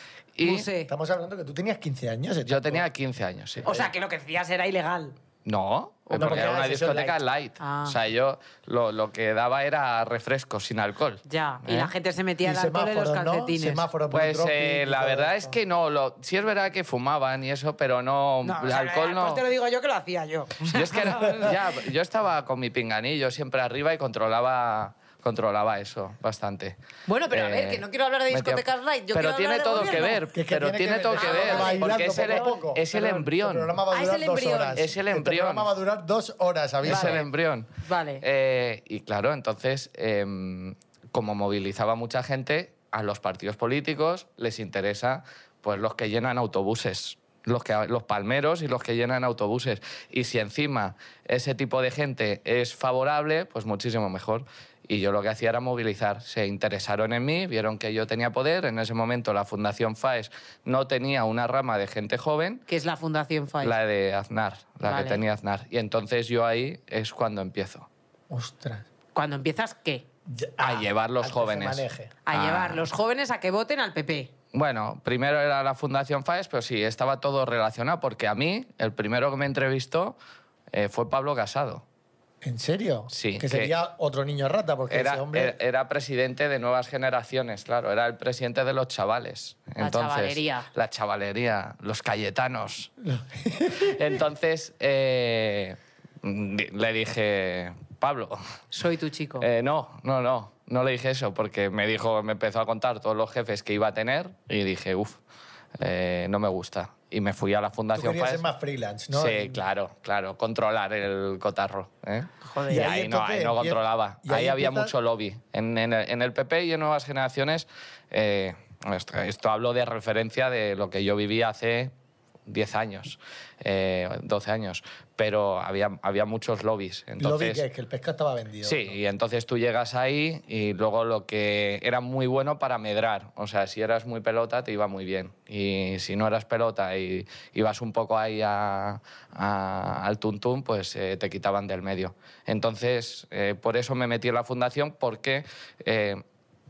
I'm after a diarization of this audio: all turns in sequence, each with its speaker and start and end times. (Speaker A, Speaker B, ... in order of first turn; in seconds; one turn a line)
Speaker A: 0.4-0.7
Speaker B: 0.4-0.9
Speaker C: 0.9-2.8
Speaker A: 2.5-3.9
Speaker B: 3.6-5.2
Speaker A: 5.5-11.9
Speaker B: 6.1-6.5
Speaker C: 6.1-7.2
Speaker B: 7.6-8.0
Speaker B: 11.3-13.9
Speaker C: 12.4-15.6
Speaker A: 14.1-19.4
Speaker B: 18.4-21.7
Speaker A: 20.7-26.8
Speaker B: 27.1-30.2
Speaker A: 27.3-33.7
Speaker C: 30.3-37.2
Speaker B: 31.1-32.6
Speaker B: 33.9-34.8
Speaker A: 34.8-35.7
Speaker A: 36.8-37.7
Speaker B: 36.9-37.3
Speaker B: 37.8-38.2
Speaker A: 38.2-62.6
Speaker B: 62.7-63.8
Speaker A: 63.6-67.9
Speaker B: 64.9-65.2
Speaker C: 68.3-68.8
Speaker B: 69.1-70.0
Speaker C: 70.3-72.1
Speaker A: 70.6-72.9
Speaker B: 72.3-74.3
Speaker A: 74.5-80.2
Speaker A: 80.7-81.8
Speaker C: 82.4-85.6
Speaker A: 83.1-83.7
Speaker A: 84.9-92.9
Speaker B: 89.8-90.7
Speaker C: 93.0-94.0
Speaker A: 93.7-98.4
Speaker B: 98.7-99.5
Speaker A: 99.4-105.2
Speaker A: 105.8-108.5
Speaker C: 107.9-109.6
Speaker A: 109.1-121.9
Speaker B: 112.4-112.9
Speaker C: 112.7-114.9
Speaker A: 122.5-127.6
Speaker C: 127.2-129.0
Speaker A: 128.6-146.2